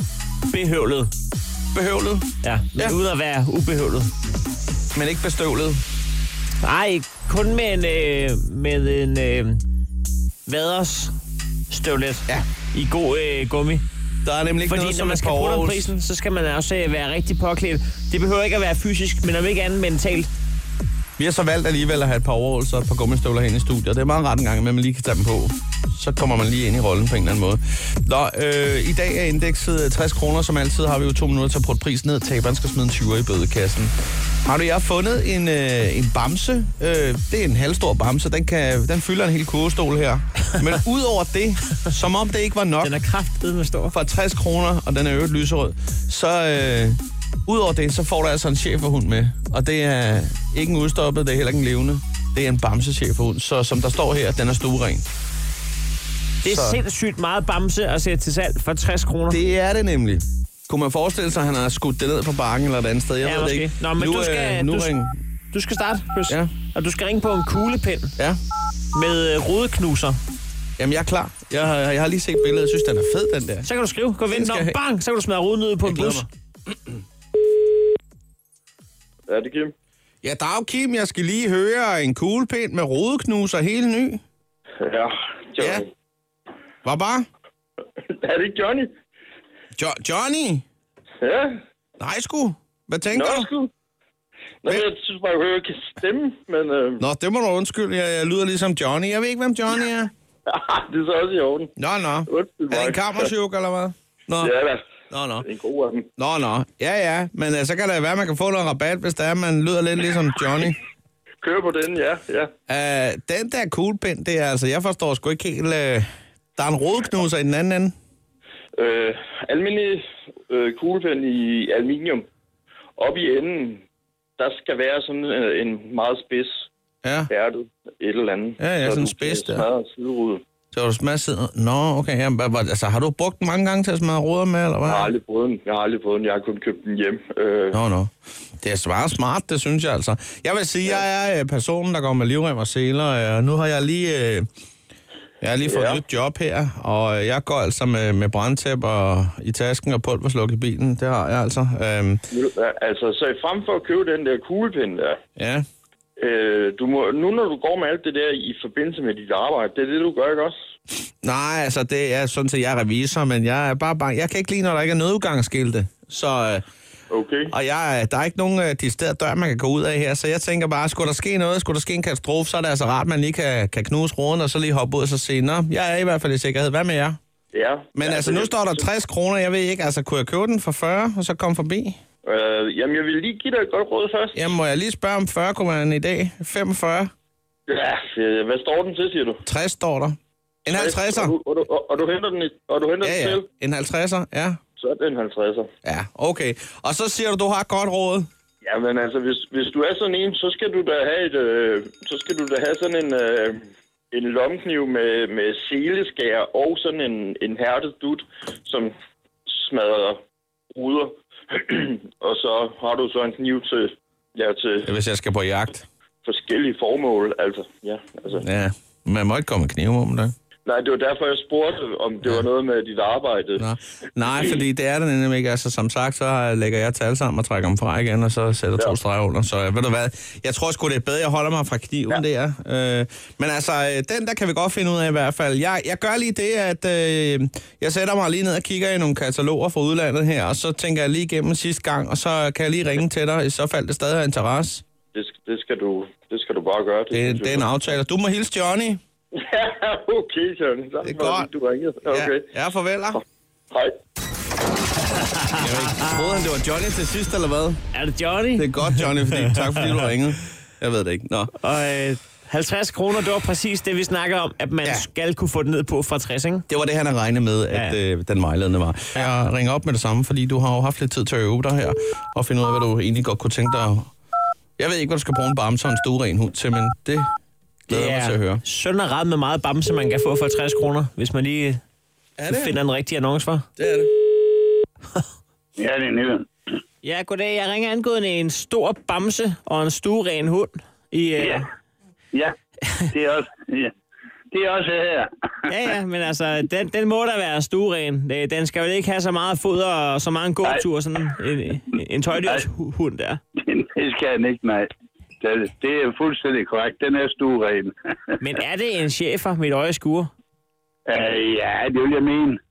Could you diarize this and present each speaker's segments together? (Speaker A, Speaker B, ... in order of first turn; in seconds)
Speaker A: 0.5-1.1, 2.4-4.1, 6.6-9.6, 10.4-11.1, 11.7-13.8, 14.7-20.3, 42.8-44.0, 56.4-59.4, 63.2-64.9, 65.5-68.1, 68.9-70.2, 73.6-76.3, 255.2-256.4, 257.9-260.0, 261.6-266.6, 267.7-268.0, 277.9-281.8, 282.5-283.7, 287.0-291.7, 295.7-303.4, 308.4-310.3
Speaker B: 1.7-3.0, 4.9-5.8, 14.2-15.9, 21.2-33.9, 34.5-42.9, 43.9-55.0, 56.4-56.8, 59.3-65.2, 70.8-73.7, 74.3-74.8, 75.8-76.3, 80.2-84.2, 85.6-85.8, 86.8-87.2, 89.8-90.6, 92.0-93.5, 97.0-100.1, 101.8-104.5, 105.1-105.5, 106.2-110.8, 112.7-117.9, 127.0-127.3, 128.6-129.7, 130.7-135.1, 137.7-144.4, 145.4-152.2, 155.4-155.6, 161.2-166.6, 167.5-177.2, 177.9-182.0, 184.3-187.1, 189.4-191.3, 193.0-194.6, 195.8-198.3, 214.8-215.8, 218.3-220.3, 223.6-244.8, 247.1-249.0, 251.0-251.5, 252.0-253.2, 255.5-257.8, 258.6-261.5, 266.7-274.1, 274.8-277.3, 277.9-278.6, 282.4-282.8, 283.8-284.1
Speaker C: 79.3-79.7, 84.8-85.8, 88.1-88.9, 91.2-91.5, 93.1-93.7, 94.6-97.0, 100.5-101.7, 102.3-103.3, 104.4-104.8, 105.4-106.1, 111.4-112.5, 118.8-122.2, 123.0-123.8, 124.4-126.7, 127.3-130.4, 134.8-137.8, 145.6-146.0, 152.3-155.2, 156.2-160.5, 167.1-167.5, 177.5-178.5, 182.2-184.4, 187.7-189.4, 190.7-193.4, 194.8-195.7, 198.6-208.9, 209.5-210.2, 210.7-214.9, 216.2-218.4, 220.7-223.6, 245.1-247.7, 249.3-252.5
Speaker D: 285.8-286.5, 291.4-291.6, 292.3-293.9, 294.5-295.7, 302.4-302.7, 303.6-304.9, 305.4-308.4, 311.1-312.6